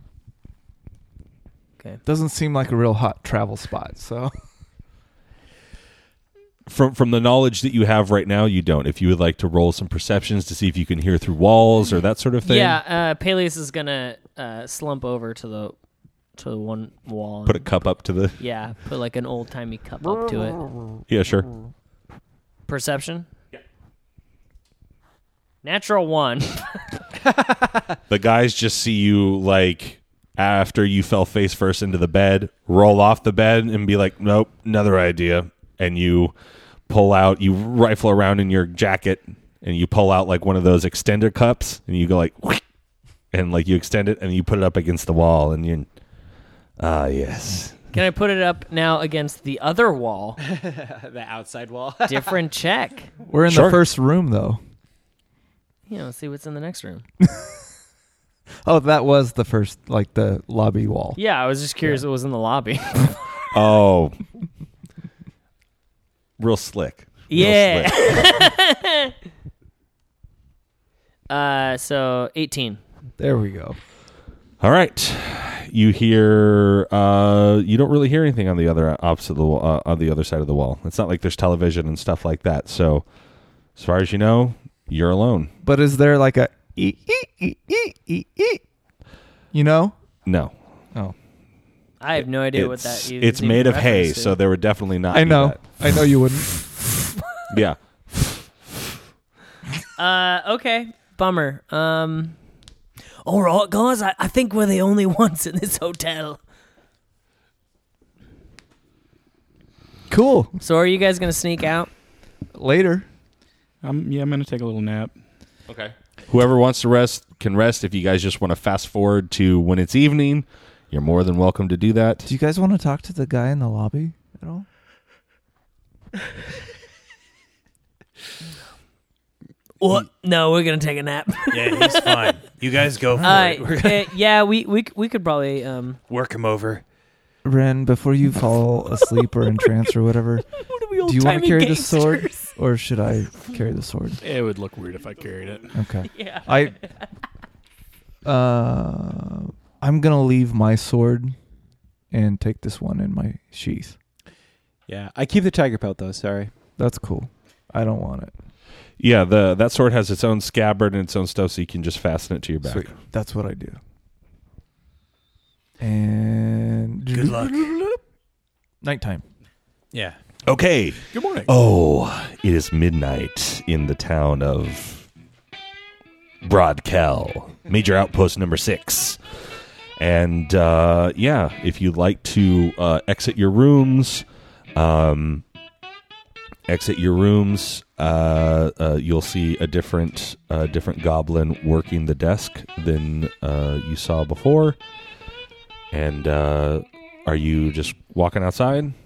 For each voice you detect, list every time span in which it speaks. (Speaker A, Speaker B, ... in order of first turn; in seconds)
Speaker A: 2.0-4.4, 53.3-54.6, 58.6-61.2, 73.2-73.8, 85.6-88.6, 89.5-90.0, 95.1-97.1, 110.1-110.6, 112.5-113.1, 122.3-124.7, 137.4-144.2, 145.7-146.8, 148.2-151.4, 152.1-154.0, 156.8-158.3, 162.8-163.8, 165.8-168.0, 168.8-169.2
Speaker B: 6.7-12.8, 17.5-18.4, 21.1-21.5, 28.1-36.4, 36.9-42.6, 43.3-45.9, 46.8-47.8, 53.5-53.8, 63.5-64.2, 66.4-68.3, 74.6-83.1, 83.8-85.5, 90.2-90.5, 92.2-96.0, 97.5-98.7, 115.7-122.3, 159.0-162.9, 170.4-175.1, 176.4-179.2, 180.0-185.4, 186.7-194.8, 195.9-199.0
Speaker C: 12.4-15.8, 16.4-17.7, 18.4-20.7, 22.7-23.3, 25.6-26.9, 47.9-50.4, 52.1-53.1, 55.9-57.0, 61.2-63.2, 67.3-69.1, 71.3-72.8, 92.0-94.4, 100.0-102.4, 103.2-106.4, 110.6-111.9, 129.8-132.4, 133.2-136.0, 140.6-142.5, 146.1-147.0
Speaker D: 50.4-52.4, 154.9-156.5
Speaker E: 113.8-115.2, 144.2-145.7, 171.1-171.5
Speaker F: 131.5-134.2, 136.1-136.8, 167.1-167.7, 169.9-170.2